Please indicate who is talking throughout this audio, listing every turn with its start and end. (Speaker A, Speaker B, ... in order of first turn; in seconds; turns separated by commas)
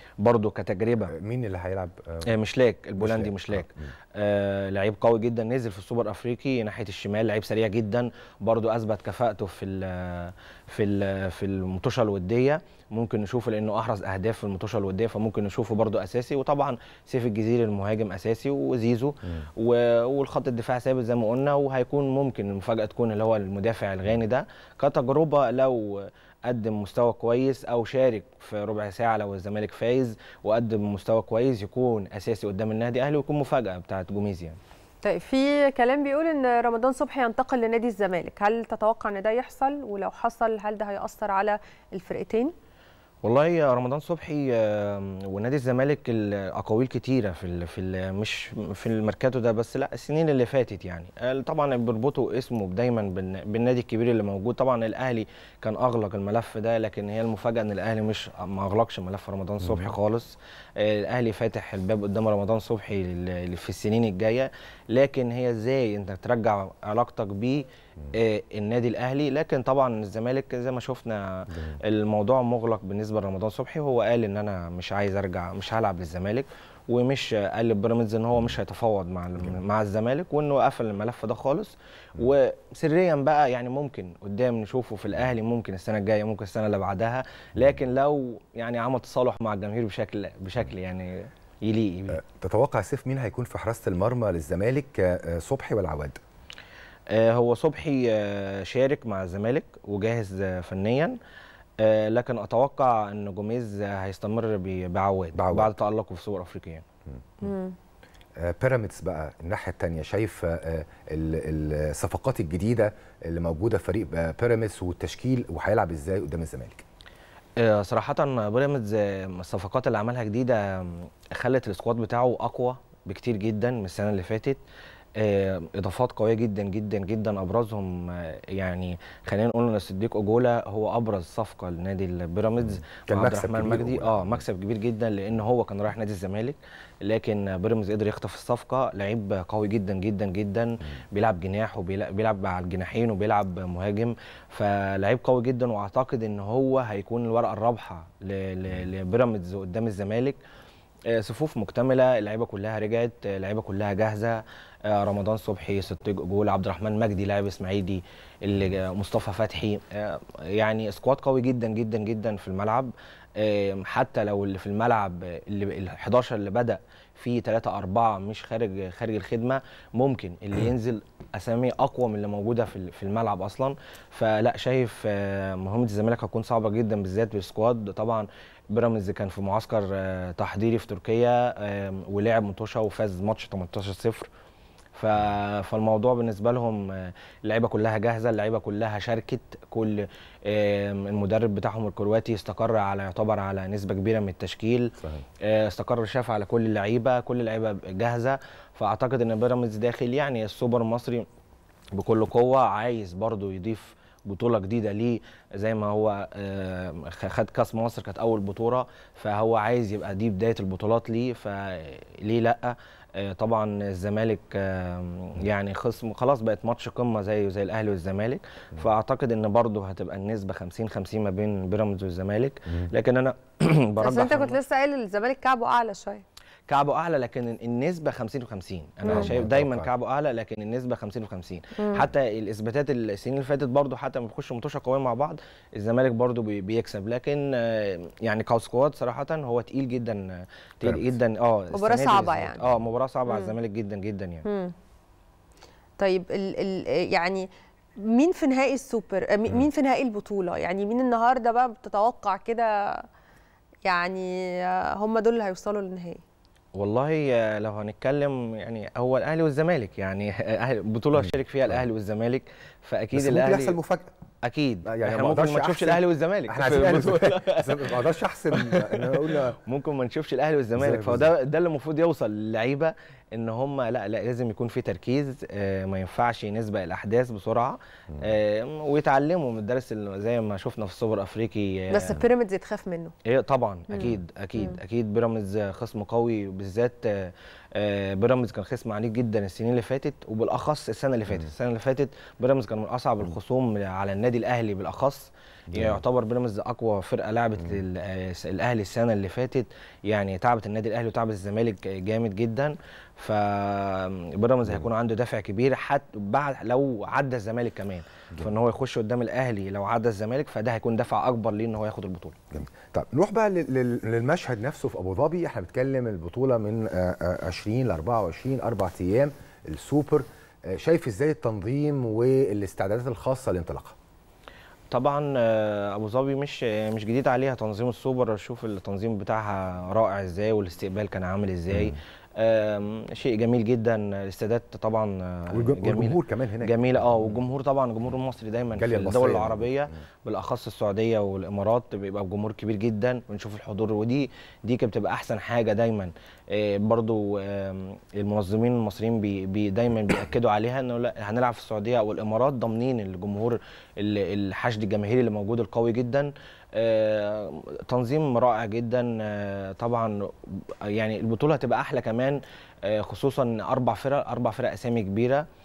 Speaker A: 0.2-1.1, Speaker B: 1.1-2.3, Speaker A: 2.3-34.6, Speaker B: 3.0-3.9, Speaker C: 35.0-42.5, Speaker A: 43.2-92.2, Speaker B: 92.1-96.2, Speaker A: 97.1-101.2, Speaker A: 101.8-106.8, Speaker B: 105.3-105.7, Speaker C: 107.4-107.7, Speaker B: 108.4-116.8, Speaker A: 117.6-124.6, Speaker A: 125.2-150.4, Speaker B: 133.0-134.4, Speaker A: 151.1-184.3, Speaker A: 184.9-201.2, Speaker B: 195.0-195.2, Speaker A: 201.9-224.6, Speaker C: 224.0-226.2, Speaker A: 226.7-244.4, Speaker C: 229.1-229.3, Speaker B: 229.1-229.9, Speaker C: 231.8-232.1, Speaker B: 240.8-241.1, Speaker C: 241.7-242.7, Speaker C: 244.4-244.7, Speaker C: 246.0-247.5, Speaker C: 248.0-253.1, Speaker C: 253.8-256.2, Speaker A: 256.7-263.8, Speaker B: 263.1-264.1, Speaker A: 264.4-267.9, Speaker B: 264.8-269.6, Speaker A: 268.5-282.2, Speaker B: 270.8-271.3, Speaker C: 281.9-283.1, Speaker A: 283.2-312.4, Speaker C: 283.9-284.8, Speaker B: 295.7-296.0, Speaker B: 312.5-324.0, Speaker A: 324.9-365.4, Speaker B: 331.7-331.9, Speaker B: 335.5-337.4, Speaker B: 338.8-340.0